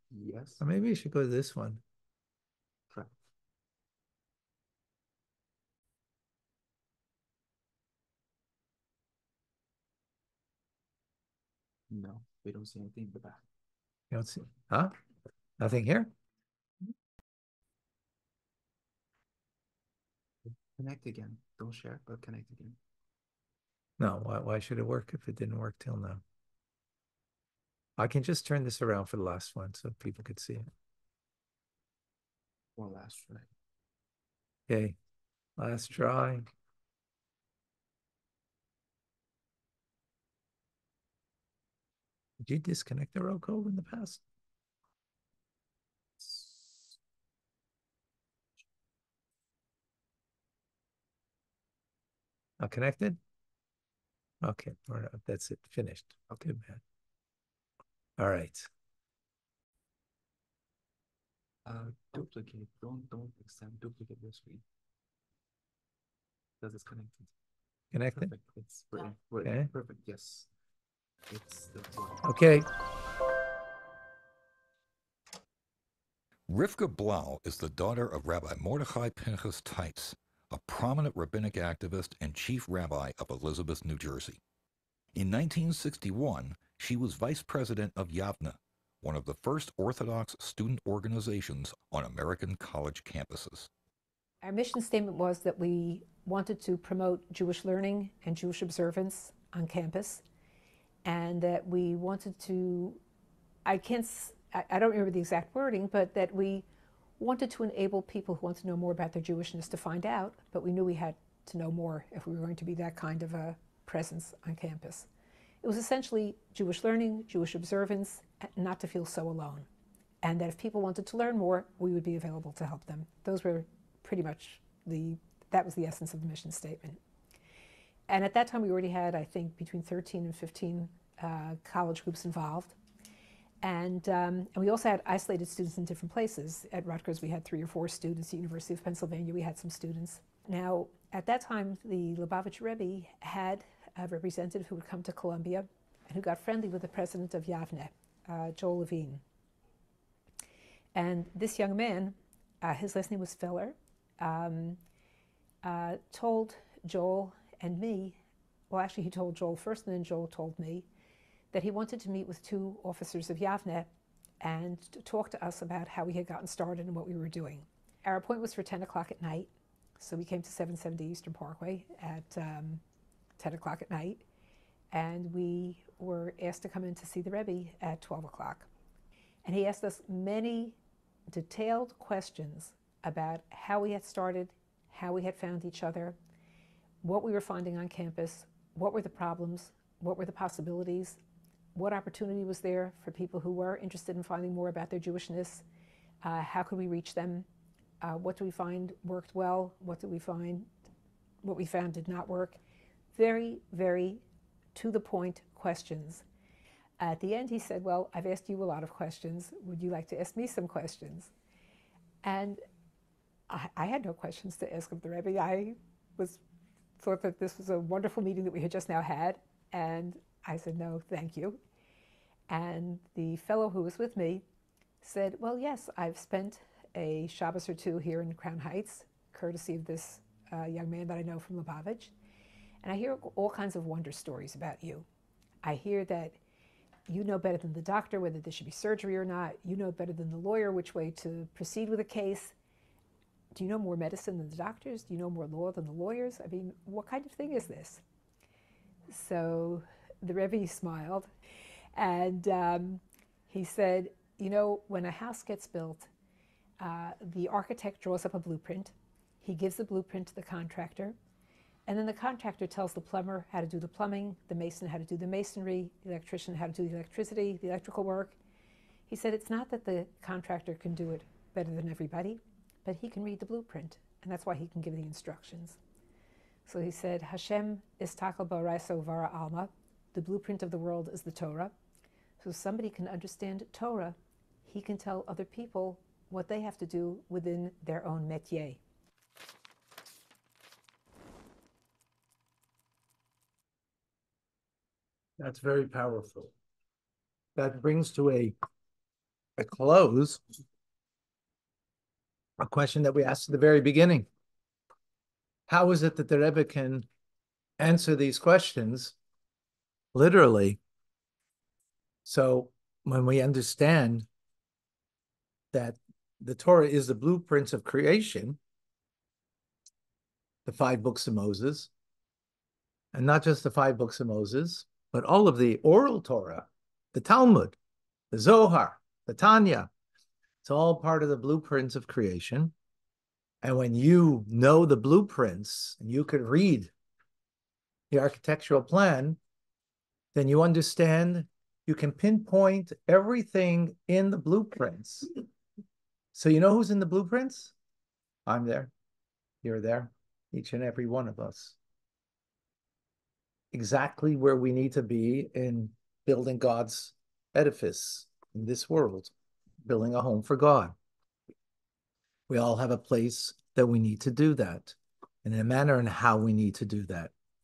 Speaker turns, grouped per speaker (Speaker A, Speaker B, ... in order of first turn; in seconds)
Speaker A: 0.1-0.6, 11.9-13.4, 20.5-22.8, 32.8-33.5, 46.2-46.9, 61.7-64.6, 66.6-67.3, 68.1-70.5, 71.3-72.2
Speaker B: 0.6-1.8, 14.1-14.9, 15.6-16.1, 24.0-26.2, 28.0-30.7, 34.7-35.0, 35.6-36.5, 42.4-44.2, 52.6-53.2, 54.4-56.8, 58.2-58.7, 67.9-68.3, 69.5-69.7, 72.2-72.7, 295.4-296.5, 297.6-298.6, 299.6-300.4, 302.6-304.3, 305.7-307.1, 307.8-309.1, 310.1-310.8, 312.2-314.3, 315.7-318.6, 320.7-321.9, 323.1-327.8, 328.3-329.9, 330.6-332.7, 333.6-336.9, 338.1-339.4, 340.4-345.3, 346.3-347.7, 348.5-348.9, 349.6-351.8, 353.7-359.3, 359.8-360.9, 362.5-367.3
Speaker C: 76.5-84.4, 85.2-93.7
Speaker D: 94.4-100.2, 101.0-103.0, 103.7-106.7, 107.2-115.1, 115.6-119.7, 120.2-127.0, 128.1-132.8, 133.6-149.2, 150.9-154.8, 155.6-158.2, 158.7-160.9, 161.5-163.9, 164.4-172.8, 173.4-174.2, 174.9-178.7, 179.4-180.8, 181.3-186.2, 187.0-191.2, 191.8-195.6, 196.2-197.5, 198.0-200.7, 201.4-202.6, 203.1-204.2, 204.8-206.2, 207.0-211.3, 212.2-212.6, 213.5-216.4, 217.0-221.6, 222.5-224.4, 225.0-232.1, 232.8-235.1, 235.6-236.4, 237.1-242.6, 243.5-248.0, 249.1-251.3, 251.9-256.1, 256.8-261.2, 261.9-268.4, 269.1-275.8, 276.7-281.7, 282.4-288.8